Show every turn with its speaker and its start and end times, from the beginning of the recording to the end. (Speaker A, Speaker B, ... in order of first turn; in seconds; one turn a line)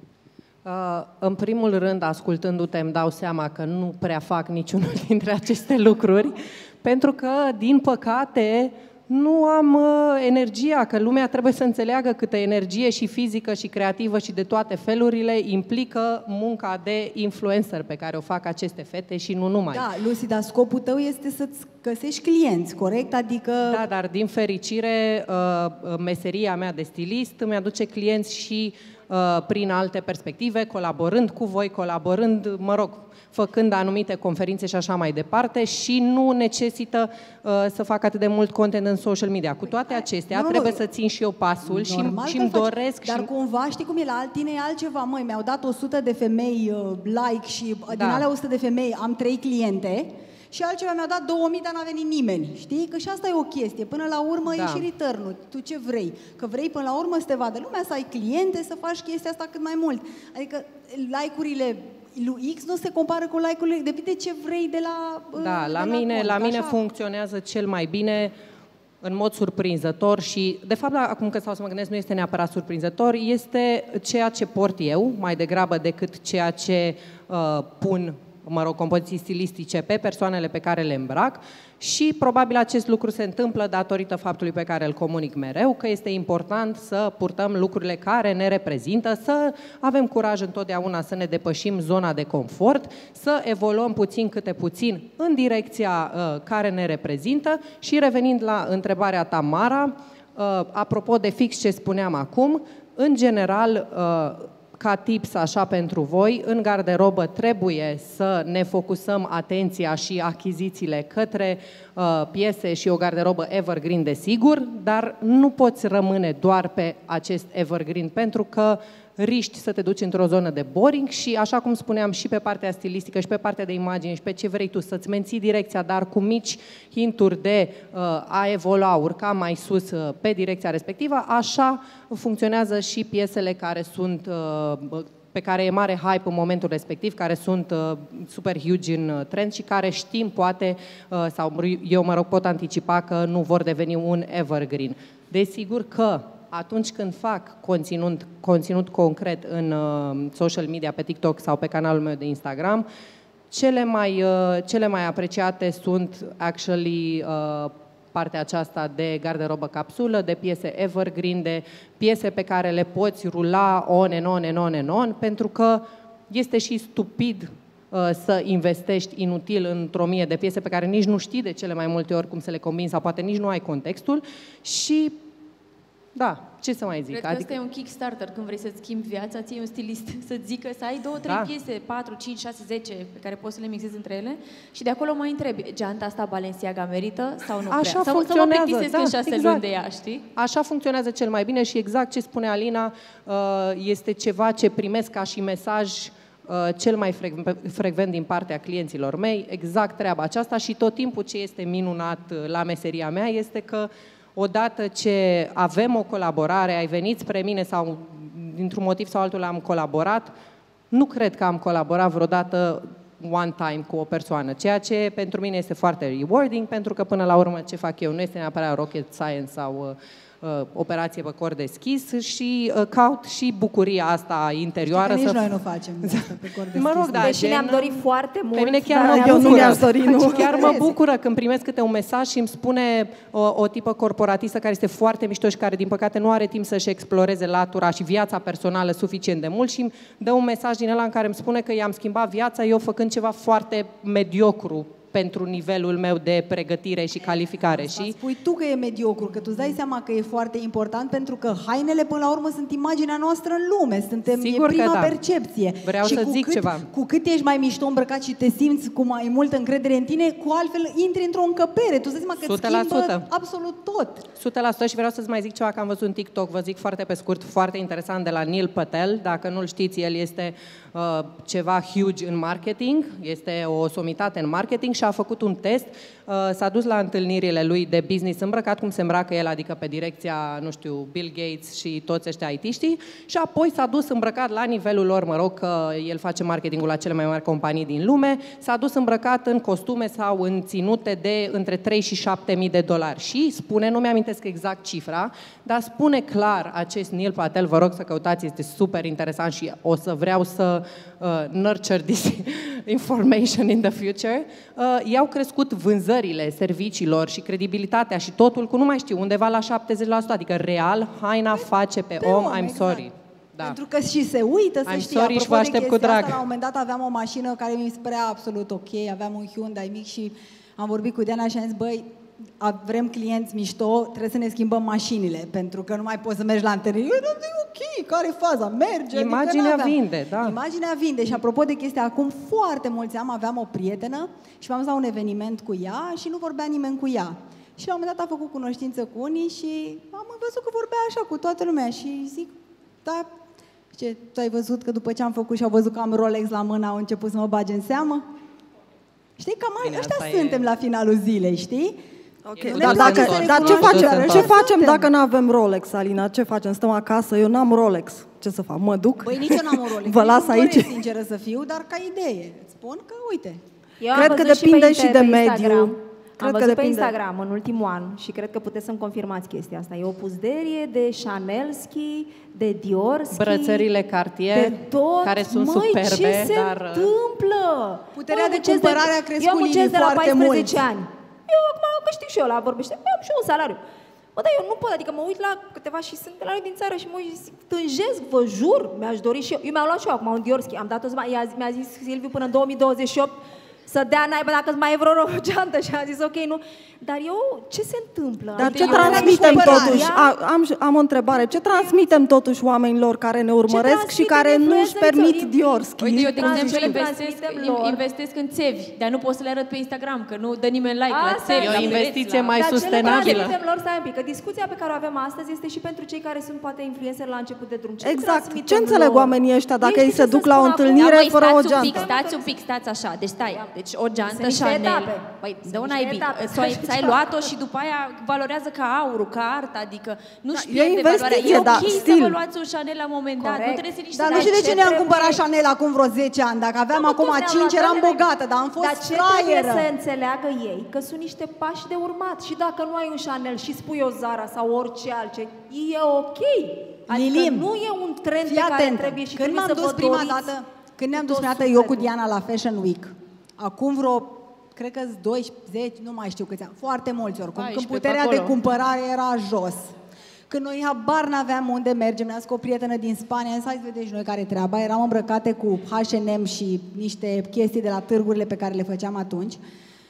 Speaker A: 0.7-19.9
Speaker B: 19.7-23.8
Speaker A: 23.7-43.3
Speaker B: 39.9-40.8
Speaker B: 41.6-66.8
Speaker A: 47.9-48.3
Speaker A: 54.5-54.9
Speaker A: 65.4-68.3
Speaker A: 69.0-152.9
Speaker A: 153.5-175.2
Speaker A: 176.2-177.5
Speaker C: 177.1-190.3
Speaker A: 181.3-181.5
Speaker A: 187.7-189.7
Speaker A: 190.4-210.3
Speaker A: 210.9-248.2
Speaker B: 224.9-227.4
Speaker D: 227.2-229.9
Speaker B: 229.0-230.9
Speaker E: 229.0-230.8
Speaker B: 247.7-264.3
Speaker A: 254.4-255.2
Speaker A: 255.8-256.9
Speaker A: 262.4-263.2
Speaker A: 264.4-313.8
Speaker B: 311.5-313.1
Speaker B: 313.6-343.3
Speaker A: 314.9-316.4
Speaker A: 329.1-330.6
Speaker B: 343.9-348.3
Speaker B: 349.4-352.0
Speaker A: 349.8-350.7
Speaker E: 352.5-360.9
Speaker A: 352.6-354.5
Speaker B: 352.6-355.1
Speaker B: 359.2-363.6
Speaker D: 364.0-373.9
Speaker E: 364.1-367.1
Speaker A: 373.3-377.1
Speaker D: 374.5-383.8
Speaker B: 378.1-380.9
Speaker D: 384.4-400.4
Speaker E: 398.6-407.0
Speaker C: 398.6-400.1
Speaker B: 399.0-400.1
Speaker D: 401.3-402.2
Speaker D: 403.7-408.0
Speaker C: 406.0-413.5
Speaker D: 411.1-422.6
Speaker A: 411.6-413.6
Speaker E: 418.0-422.1
Speaker C: 420.9-435.0
Speaker D: 424.3-427.4
Speaker E: 430.5-432.4
Speaker D: 431.4-432.0
Speaker D: 433.4-435.4
Speaker B: 434.1-439.9
Speaker D: 436.9-438.2
Speaker D: 438.8-450.5
Speaker B: 447.1-447.7
Speaker B: 448.4-459.9
Speaker D: 451.1-452.1
Speaker C: 457.6-458.6
Speaker B: 460.5-469.6